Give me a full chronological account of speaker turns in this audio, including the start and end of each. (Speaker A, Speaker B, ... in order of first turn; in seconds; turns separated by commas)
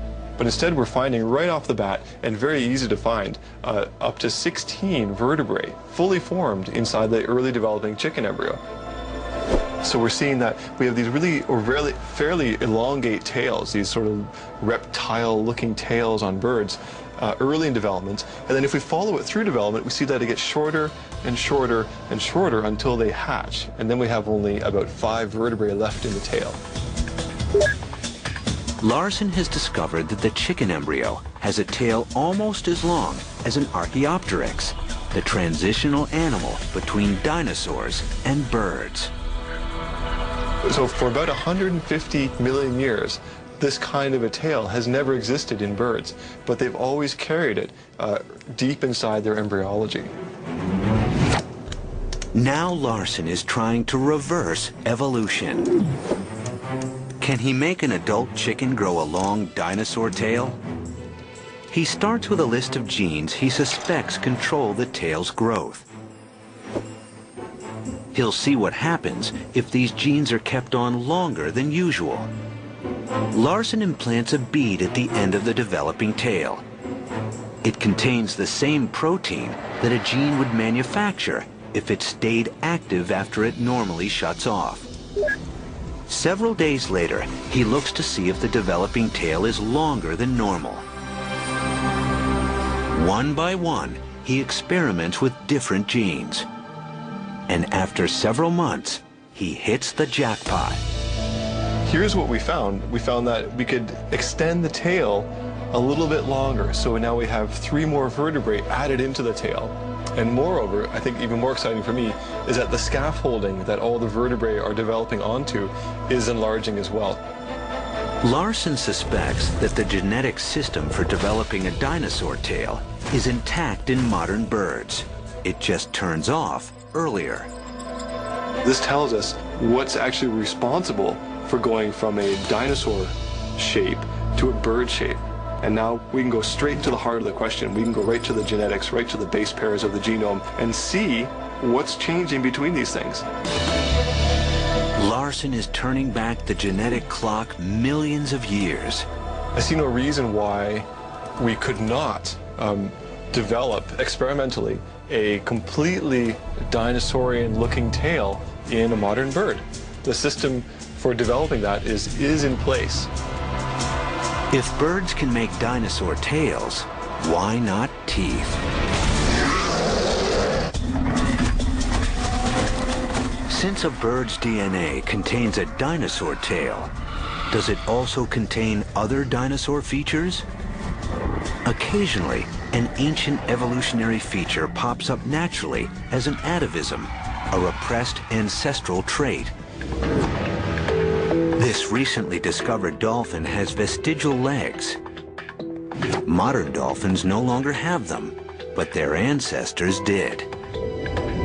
Speaker A: 0.4-8.6, Speaker A: 9.8-26.6, Speaker B: 28.8-39.1, Speaker A: 40.7-50.1, Speaker B: 52.3-55.7, Speaker B: 57.2-60.6, Speaker B: 61.7-65.9, Speaker B: 68.1-72.3, Speaker B: 73.3-76.6, Speaker B: 77.6-84.9, Speaker B: 86.1-90.9, Speaker B: 92.9-96.5, Speaker B: 97.5-100.8, Speaker A: 101.8-117.2, Speaker B: 118.2-127.5, Speaker A: 128.6-143.2, Speaker B: 144.9-149.1, Speaker A: 149.5-150.9, Speaker A: 151.4-163.1, Speaker B: 164.5-168.6, Speaker B: 173.5-176.9, Speaker B: 177.5-180.5, Speaker B: 181.7-189.5, Speaker B: 191.6-195.0, Speaker B: 196.2-200.5